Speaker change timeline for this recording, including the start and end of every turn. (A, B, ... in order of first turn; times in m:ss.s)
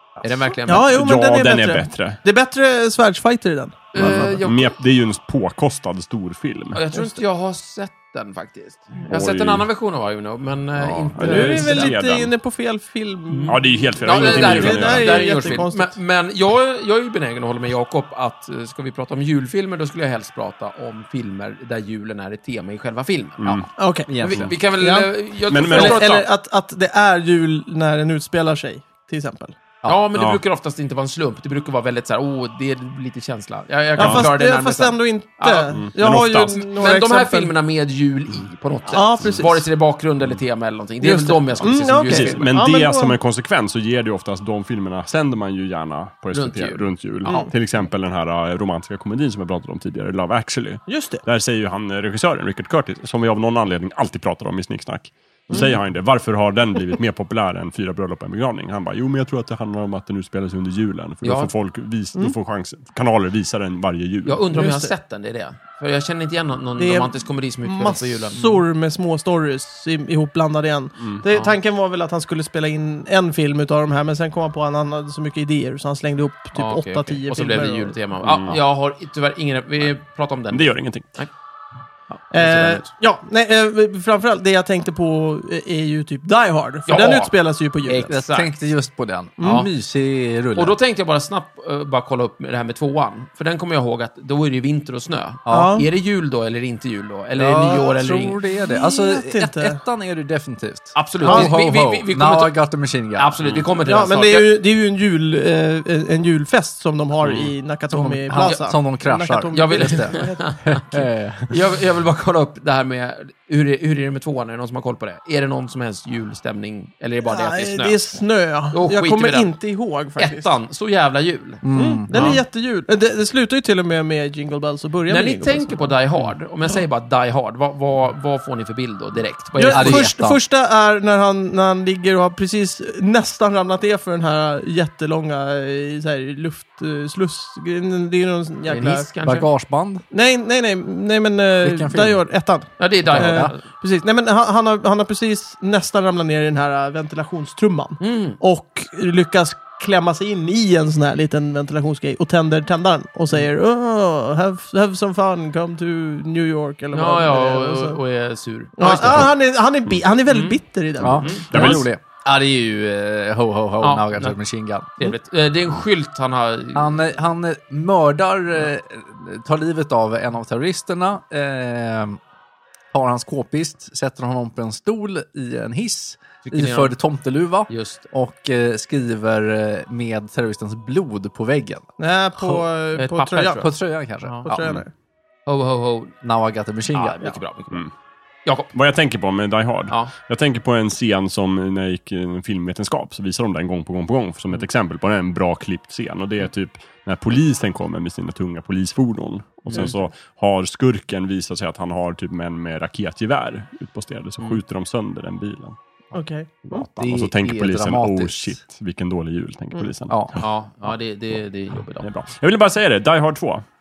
0:00.2-0:04.3 A
0:00.2-0:01.0 B
0:00.8-0:02.2 C
0:03.9-0:04.8 B
0:04.0-0:06.8 C
0:06.7-0:11.9 B
0:06.9-0:07.2 A
0:09.1-0:09.7 C
0:10.8-0:12.3 C
0:11.2-0:16.0 A
0:13.3-0:23.7 B
0:13.5-0:15.6 C
0:23.4-0:23.7 C
0:23.8-0:24.1 A
0:24.1-0:24.5 D
0:24.2-0:26.3 B
0:24.8-0:25.1 A
0:25.5-0:26.1 C
0:25.7-0:29.6 A
0:29.8-0:35.8 B
0:30.2-0:30.4 C
0:34.0-0:37.5 A
0:34.0-0:34.3 C
0:35.7-0:36.6 C
0:36.5-0:42.5 B
0:38.9-0:39.7 A
0:41.0-0:43.2 A
0:42.0-1:04.5 C
0:46.3-0:47.5 B
0:50.9-0:51.2 A
1:01.2-1:01.5 B
1:04.2-1:08.6 B
1:04.5-1:04.9 A
1:06.8-1:18.0 A
1:11.3-1:11.6 B
1:16.6-1:21.3 B
1:18.2-1:18.6 C
1:20.5-1:21.1 C
1:22.1-1:22.9 B
1:22.3-1:28.1 A
1:26.9-1:27.3 B
1:27.8-1:28.5 B
1:28.1-1:30.8 D
1:29.4-1:29.7 A
1:29.4-1:29.7 B
1:30.6-1:38.4 B
1:35.5-1:35.8 D
1:35.5-1:35.9 A
1:37.4-1:43.4 D
1:38.6-1:39.8 A
1:41.0-1:42.6 B
1:41.2-1:41.6 A
1:43.2-1:44.5 B
1:43.4-1:43.7 C
1:43.8-1:50.6 A
1:47.2-1:47.5 C
1:47.9-1:51.6 D
1:48.3-1:48.6 B
1:49.5-1:58.0 B
1:57.3-2:00.5 A
1:58.7-1:59.6 B
2:00.2-2:02.4 B
2:01.6-2:02.1 D
2:01.7-2:06.0 A
2:05.1-2:10.1 B
2:09.6-2:19.1 A
2:09.7-2:10.4 D
2:18.6-2:19.5 B
2:19.2-2:20.0 D
2:20.1-2:38.0 A
2:21.6-2:22.2 D
2:22.8-2:23.6 B
2:23.1-2:23.6 D
2:28.0-2:28.4 B
2:36.9-2:39.3 B
2:38.8-2:41.8 A
2:40.3-2:40.6 B
2:41.0-2:45.1 D
2:41.2-2:41.8 B
2:41.5-2:41.9 C
2:43.8-2:44.4 B
2:45.0-2:46.9 B
2:46.8-2:52.2 D
2:52.9-3:01.9 D
2:56.4-2:57.0 B
2:57.7-2:58.1 B
3:02.0-3:03.7 A
3:03.0-3:03.7 B
3:03.5-3:04.5 D
3:04.2-3:04.5 B
3:04.4-3:04.9 A
3:04.6-3:04.8 C
3:05.5-3:06.2 B
3:06.2-3:07.4 D
3:06.9-3:07.8 B
3:08.4-3:08.7 B
3:08.7-3:25.8 C
3:19.7-3:19.9 B
3:26.1-3:26.9 A
3:26.7-3:30.1 C
3:27.0-3:28.6 D
3:30.1-3:30.4 D
3:30.4-3:32.1 B
3:32.0-3:33.6 C